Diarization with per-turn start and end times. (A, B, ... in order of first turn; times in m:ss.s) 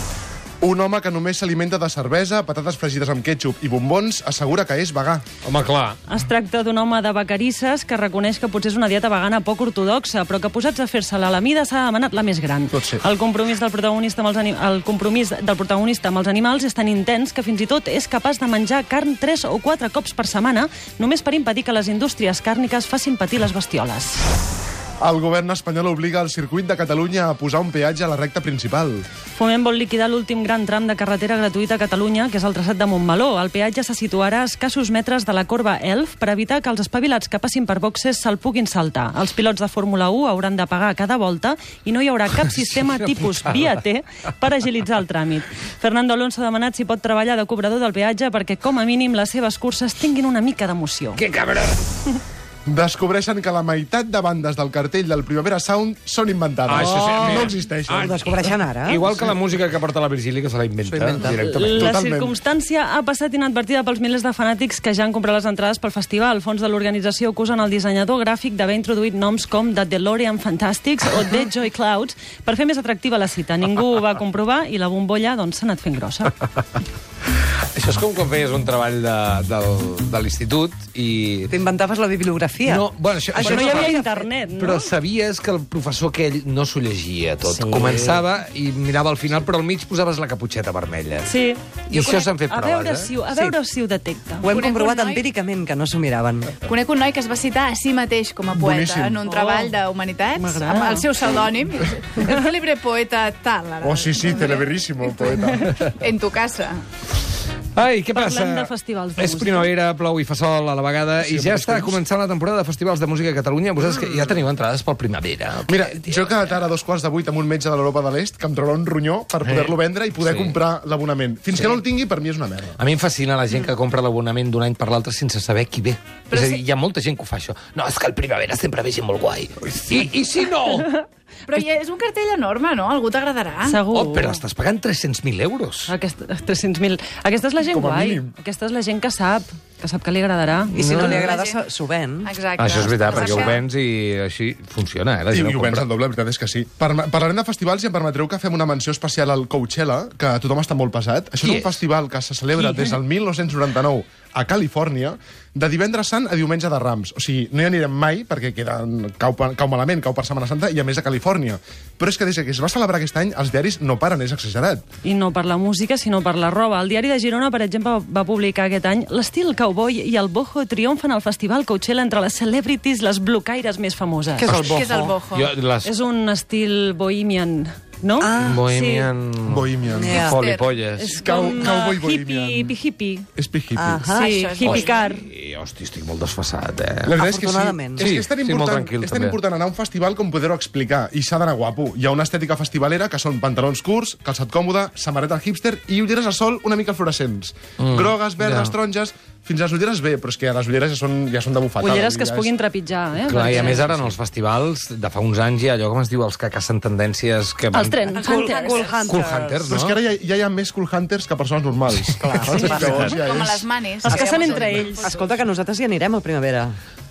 0:00.6-0:05.2 A
0:05.4-0:06.0 B
0:06.1-0:24.2 C
0:12.7-0:13.0 A
0:25.0-0:29.0 A
0:29.4-0:51.2 C
0:51.2-0:51.9 B
0:52.7-0:58.1 A
0:56.7-1:01.9 B
0:56.8-0:59.2 D
1:00.9-1:01.4 D
1:01.3-1:16.4 C
1:01.7-1:02.3 A
1:17.7-1:21.5 B
1:21.5-1:24.3 D
1:22.7-1:24.0 B
1:23.4-1:24.9 C
1:24.6-1:31.3 B
1:27.4-1:28.2 D
1:31.2-1:34.5 C
1:31.9-1:32.2 E
1:31.9-1:33.1 B
1:34.4-1:36.6 D
1:34.5-1:35.2 E
1:36.6-1:44.7 E
1:38.6-1:39.2 A
1:39.3-1:39.8 C
1:40.3-1:41.1 C
1:43.8-1:45.8 A
1:45.2-1:46.8 E
1:47.8-1:56.4 B
1:48.1-1:49.7 C
1:51.2-1:52.0 A
1:55.7-2:02.8 A
1:59.4-2:00.6 B
2:02.8-2:10.9 B
2:06.3-2:06.6 E
2:10.8-2:11.0 C
2:11.5-2:13.8 E
2:13.6-2:14.4 C
2:13.9-2:15.9 B
2:15.9-2:21.1 C
2:17.7-2:18.3 A
2:20.7-2:22.4 D
2:20.7-2:21.2 B
2:20.9-2:21.6 E
2:22.2-2:23.6 E
2:22.6-2:25.8 B
2:23.1-2:23.5 C
2:25.3-2:44.8 A
2:31.4-2:31.8 B
2:45.0-2:54.5 C
2:54.4-2:55.2 D
2:54.5-2:55.5 E
2:55.3-2:55.9 B
2:55.8-2:59.1 C
2:58.2-2:58.6 D
2:58.4-3:01.2 B
2:59.4-3:00.2 A
2:59.9-3:00.4 D
3:00.2-3:00.8 E
3:01.0-3:03.3 C
3:01.1-3:02.8 A
3:03.4-3:04.1 A
3:03.8-3:04.3 D
3:04.1-3:05.1 E
3:04.1-3:05.2 C
3:04.6-3:07.2 B
3:07.0-3:22.5 A
3:07.2-3:08.1 D
3:08.0-3:09.4 B
3:17.8-3:18.7 B
3:21.8-3:24.1 C
3:23.3-3:28.3 B
3:27.7-3:29.0 C
3:28.1-3:29.7 D
3:28.9-3:30.0 B
3:29.7-3:33.7 A
3:32.1-3:33.2 D
3:32.5-3:33.0 C
3:32.6-3:35.3 E
3:34.0-3:35.1 C
3:34.0-3:36.8 D